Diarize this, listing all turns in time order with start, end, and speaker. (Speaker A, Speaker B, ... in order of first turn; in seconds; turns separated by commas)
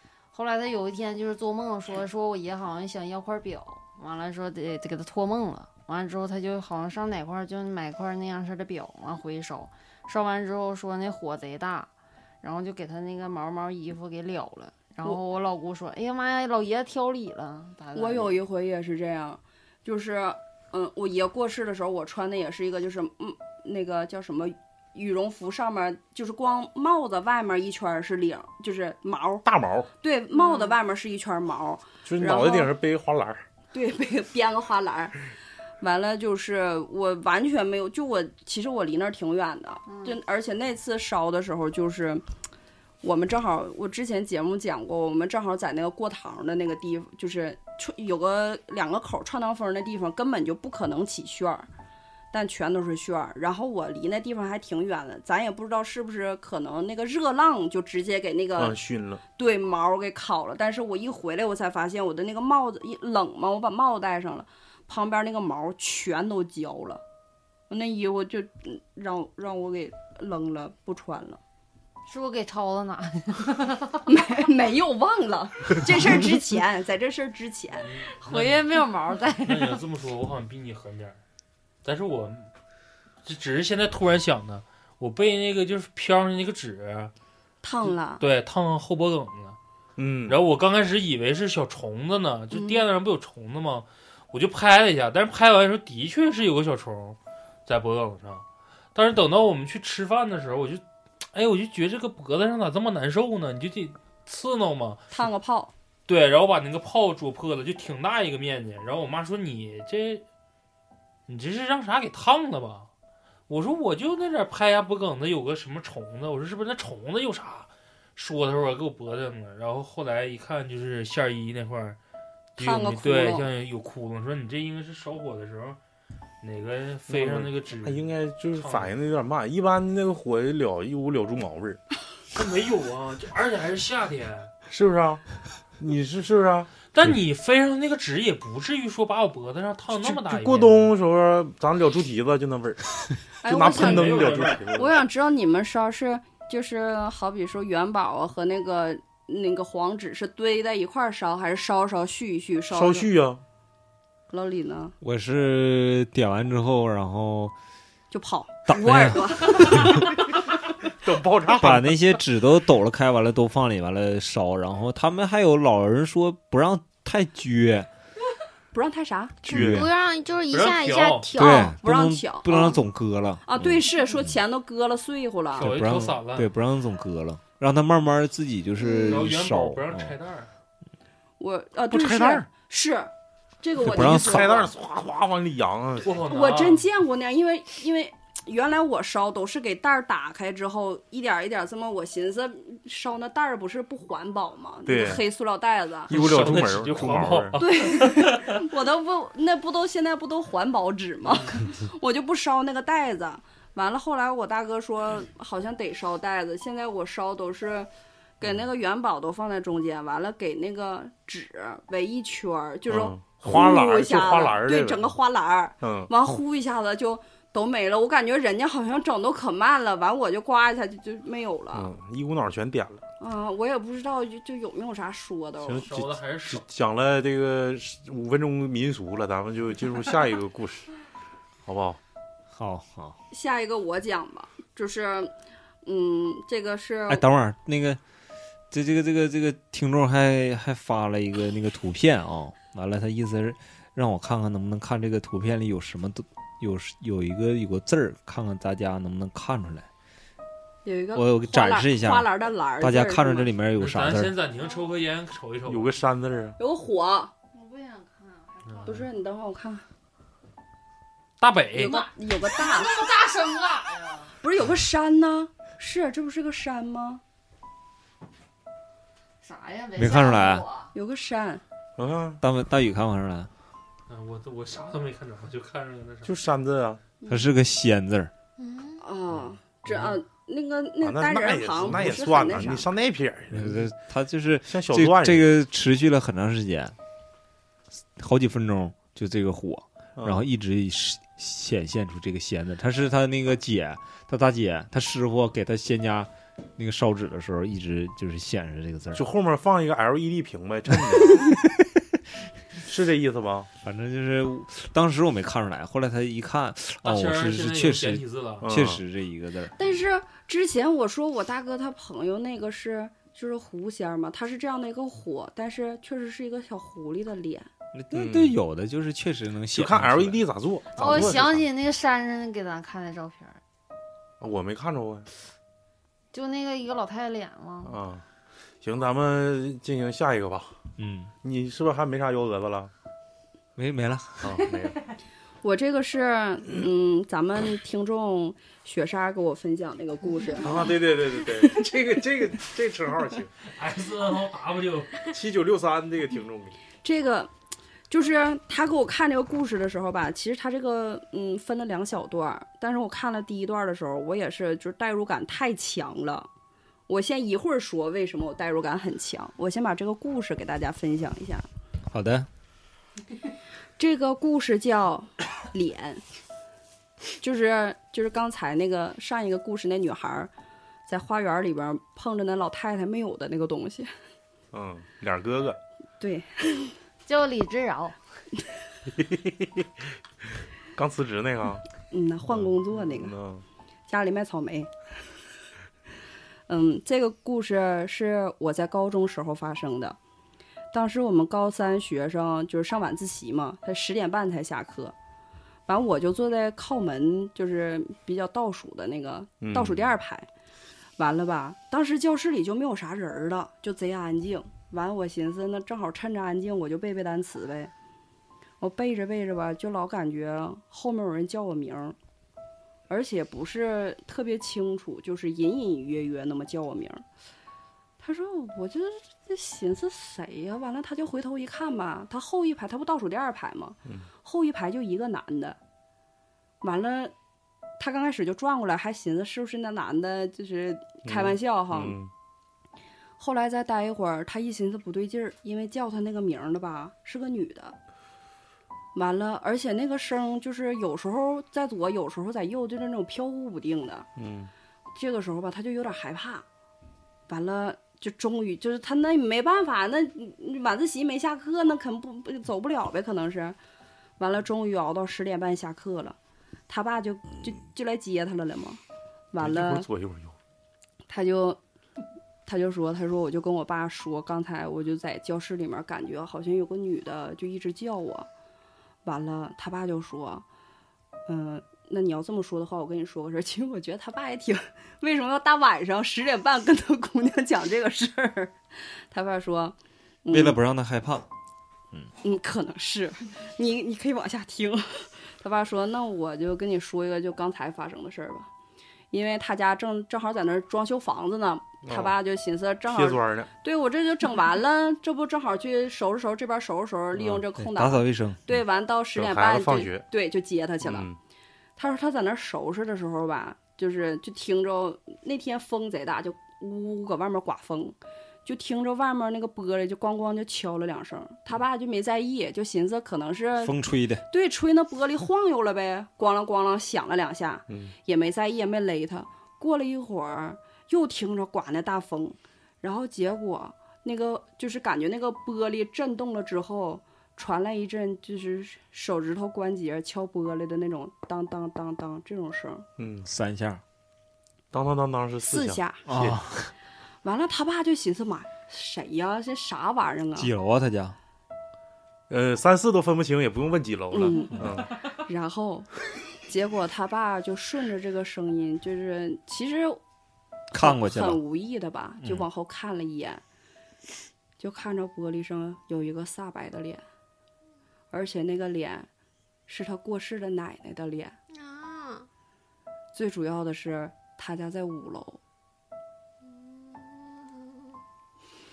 Speaker A: 0.3-11.9, Speaker A: 12.4-18.4, Speaker B: 17.9-29.4, Speaker C: 29.4-29.9, Speaker B: 30.0-32.7, Speaker A: 30.3-30.8, Speaker C: 32.0-33.4, Speaker B: 33.7-35.2, Speaker B: 35.8-42.2, Speaker A: 39.9-40.1, Speaker B: 43.0-51.7, Speaker B: 52.3-58.8, Speaker C: 58.6-59.2, Speaker B: 59.4-67.0, Speaker B: 67.7-71.4, Speaker A: 72.1-74.0, Speaker B: 74.1-78.0, Speaker D: 77.8-78.6, Speaker A: 78.2-79.8, Speaker D: 79.4-81.2, Speaker D: 81.8-82.5, Speaker D: 83.2-87.1, Speaker B: 87.6-88.2, Speaker D: 88.2-89.6, Speaker C: 90.0-90.4, Speaker D: 90.3-100.8, Speaker D: 101.3-105.2, Speaker B: 105.1-105.7, Speaker D: 106.1-110.2, Speaker D: 111.3-112.9, Speaker D: 113.5-122.0, Speaker B: 122.6-123.5, Speaker D: 122.6-125.8, Speaker D: 126.4-128.9, Speaker C: 127.1-131.8, Speaker D: 132.3-134.5, Speaker C: 134.7-135.2, Speaker C: 135.8-136.7, Speaker D: 136.9-140.9, Speaker C: 139.9-144.9, Speaker B: 143.4-153.1, Speaker D: 143.6-144.7, Speaker C: 152.7-153.4, Speaker B: 154.3-154.9, Speaker E: 155.0-157.5, Speaker B: 158.1-160.3, Speaker E: 158.7-160.1, Speaker C: 161.0-162.2, Speaker E: 161.5-167.9, Speaker B: 168.7-169.4, Speaker C: 169.4-169.8, Speaker F: 169.4-171.8, Speaker E: 169.5-169.9, Speaker D: 170.5-171.3, Speaker B: 171.3-172.8, Speaker E: 171.4-174.3, Speaker B: 173.4-175.7, Speaker D: 175.6-176.5, Speaker E: 175.6-180.1, Speaker B: 178.9-179.2, Speaker D: 179.0-180.5, Speaker B: 181.4-184.7, Speaker C: 181.9-182.4, Speaker C: 183.8-186.2, Speaker E: 183.8-184.6, Speaker D: 186.0-186.9, Speaker B: 186.2-196.1, Speaker C: 194.8-195.2, Speaker C: 196.1-197.6, Speaker D: 196.1-198.6, Speaker B: 197.5-207.9, Speaker B: 208.4-221.9, Speaker C: 212.9-215.1, Speaker C: 215.8-216.1, Speaker C: 221.7-223.0, Speaker B: 223.2-225.9, Speaker C: 225.6-230.9, Speaker D: 225.8-226.6, Speaker C: 231.7-232.0, Speaker E: 232.5-233.2, Speaker B: 233.3-237.2, Speaker E: 237.1-238.0, Speaker E: 238.7-249.9, Speaker B: 250.8-253.5, Speaker E: 251.1-254.3, Speaker D: 253.8-256.0, Speaker A: 254.5-254.9, Speaker C: 255.7-256.6, Speaker B: 256.6-257.3, Speaker A: 257.5-259.1, Speaker B: 258.8-259.8, Speaker D: 261.4-262.0, Speaker B: 261.7-263.1, Speaker A: 261.8-264.4, Speaker B: 264.4-267.2, Speaker A: 269.4-270.9, Speaker E: 269.9-270.6, Speaker B: 270.9-271.6, Speaker C: 272.0-272.4, Speaker E: 272.4-273.5, Speaker D: 274.1-276.3, Speaker C: 276.2-277.0, Speaker E: 277.3-278.3, Speaker F: 278.6-279.0, Speaker B: 279.0-282.9, Speaker C: 281.0-283.9, Speaker E: 283.5-286.9, Speaker C: 284.7-285.5, Speaker E: 288.2-299.2, Speaker C: 290.2-290.4, Speaker C: 299.1-301.5, Speaker E: 300.9-302.0, Speaker C: 302.8-303.7, Speaker E: 303.8-309.7, Speaker D: 307.0-308.7, Speaker C: 308.6-309.0, Speaker B: 309.8-317.7, Speaker E: 317.9-320.4, Speaker C: 318.1-318.6, Speaker C: 319.7-321.6, Speaker A: 320.9-323.6, Speaker C: 324.4-325.3, Speaker A: 326.3-328.0, Speaker C: 327.8-328.2, Speaker C: 328.8-330.8, Speaker E: 331.0-331.3, Speaker C: 331.4-332.9, Speaker E: 333.8-334.6, Speaker C: 334.4-335.0, Speaker B: 335.6-340.9, Speaker C: 340.6-343.5, Speaker D: 343.7-345.3, Speaker C: 345.3-346.8, Speaker B: 347.0-347.5, Speaker B: 348.1-356.5, Speaker B: 357.1-361.6, Speaker E: 362.1-362.5, Speaker B: 364.0-366.2, Speaker B: 367.4-370.5, Speaker B: 371.1-374.1, Speaker C: 374.7-375.8, Speaker B: 376.2-376.9, Speaker A: 377.2-378.2, Speaker C: 379.1-379.9, Speaker C: 380.9-381.8, Speaker B: 382.1-383.4, Speaker C: 382.5-383.6, Speaker B: 384.1-384.9, Speaker B: 386.7-390.2, Speaker B: 390.9-395.1, Speaker B: 395.9-400.5, Speaker C: 399.6-400.1, Speaker B: 401.2-407.9, Speaker B: 408.8-412.1, Speaker B: 413.1-417.2, Speaker B: 418.2-425.8, Speaker B: 426.8-427.3, Speaker B: 428.0-432.2, Speaker C: 431.2-432.3, Speaker B: 433.4-437.9, Speaker B: 439.1-444.3, Speaker C: 444.4-444.7, Speaker B: 445.1-446.6, Speaker B: 447.5-453.8, Speaker B: 454.4-456.4, Speaker B: 456.9-459.0, Speaker B: 459.5-460.1, Speaker C: 459.6-460.6, Speaker B: 461.3-461.8, Speaker B: 462.6-468.5, Speaker B: 469.2-470.6, Speaker B: 471.5-480.8, Speaker E: 480.5-481.5, Speaker B: 482.4-488.7, Speaker B: 489.3-501.3, Speaker C: 492.0-492.4, Speaker C: 493.1-493.7, Speaker C: 497.3-497.6, Speaker E: 497.8-498.7, Speaker C: 499.3-500.3, Speaker C: 501.0-501.4, Speaker B: 501.9-513.9, Speaker E: 513.8-514.4, Speaker B: 514.5-533.0, Speaker C: 517.9-518.1, Speaker C: 533.2-533.5, Speaker E: 533.4-534.0, Speaker C: 534.9-536.6, Speaker B: 535.6-536.2, Speaker E: 536.3-536.9, Speaker B: 537.4-540.7, Speaker E: 540.5-541.4, Speaker C: 542.5-545.1, Speaker B: 544.3-546.1, Speaker B: 546.7-550.2, Speaker E: 550.9-551.6, Speaker B: 550.9-553.6, Speaker B: 554.8-557.2, Speaker B: 558.3-559.3, Speaker B: 559.9-561.5, Speaker F: 561.7-562.5, Speaker B: 563.3-565.6, Speaker F: 566.7-568.0